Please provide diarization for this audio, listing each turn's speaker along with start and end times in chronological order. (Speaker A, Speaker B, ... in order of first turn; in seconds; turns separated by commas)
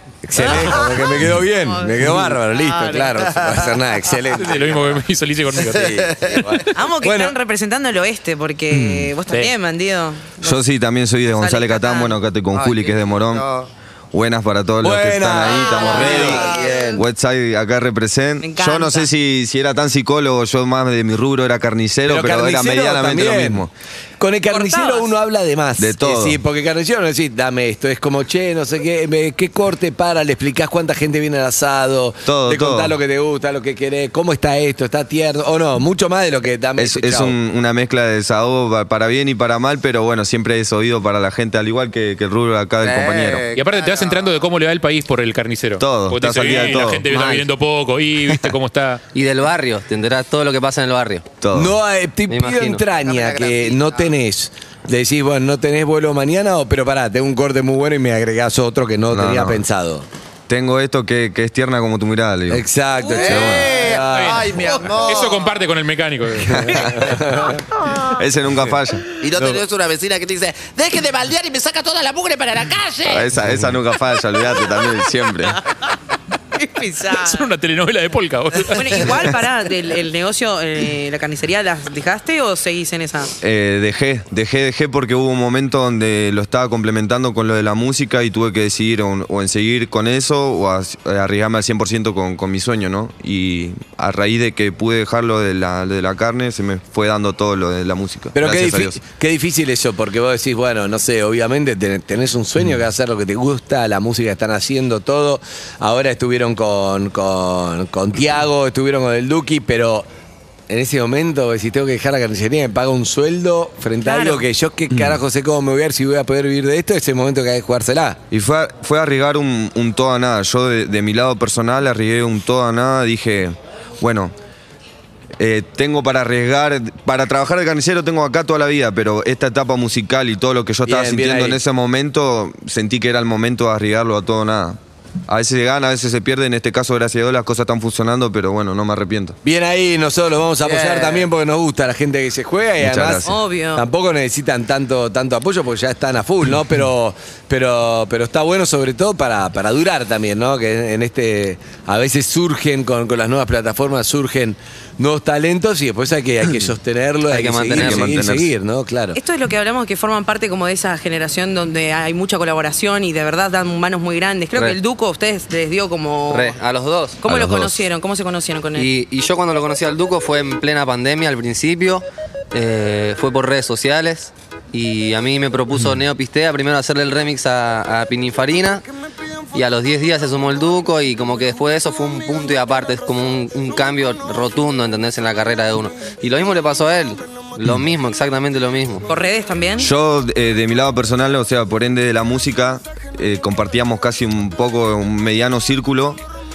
Speaker A: 0.2-5.0, Speaker B: 0.4-3.2, Speaker C: 3.2-3.7, Speaker D: 4.4-6.0, Speaker A: 5.6-7.4, Speaker C: 5.8-6.5, Speaker B: 6.7-10.6, Speaker A: 8.7-9.1, Speaker D: 9.3-9.5, Speaker E: 10.4-13.5, Speaker B: 11.3-12.2, Speaker C: 12.5-13.7, Speaker E: 14.1-16.4, Speaker A: 14.8-17.0, Speaker B: 15.6-17.0, Speaker C: 16.1-16.8, Speaker E: 17.0-23.7, Speaker B: 18.4-19.1, Speaker A: 22.1-23.7, Speaker A: 24.2-37.4, Speaker B: 24.5-25.1, Speaker E: 25.8-26.4, Speaker E: 32.3-33.0, Speaker E: 36.8-43.5, Speaker C: 42.8-44.4, Speaker D: 43.5-49.0, Speaker E: 45.8-47.1, Speaker F: 47.1-47.4, Speaker F: 49.1-51.3, Speaker E: 51.4-51.8, Speaker A: 51.5-60.1, Speaker F: 52.3-52.8, Speaker C: 53.0-54.1, Speaker E: 59.1-59.6, Speaker E: 60.5-62.6, Speaker A: 62.5-64.5, Speaker B: 63.0-63.5, Speaker C: 63.1-65.5, Speaker D: 64.1-66.8, Speaker A: 66.4-67.6, Speaker E: 66.5-67.2, Speaker E: 68.0-69.0, Speaker C: 69.2-73.4, Speaker A: 69.4-69.6, Speaker E: 73.0-75.6, Speaker B: 76.6-77.5, Speaker D: 77.1-79.3, Speaker B: 78.7-83.3, Speaker E: 83.4-99.0, Speaker A: 98.3-110.1, Speaker A: 110.7-118.2, Speaker B: 114.0-114.5, Speaker E: 114.9-115.2, Speaker E: 118.3-124.3, Speaker E: 125.4-139.4, Speaker A: 130.9-131.6, Speaker A: 139.4-159.2, Speaker C: 140.6-141.3, Speaker E: 142.8-143.3, Speaker B: 143.2-143.8, Speaker F: 157.3-158.1, Speaker E: 157.8-158.5, Speaker B: 159.2-166.6, Speaker F: 166.3-167.2, Speaker B: 167.2-168.9, Speaker E: 167.3-167.8, Speaker F: 168.8-178.8, Speaker F: 179.5-189.1, Speaker B: 189.1-189.9, Speaker E: 189.8-196.2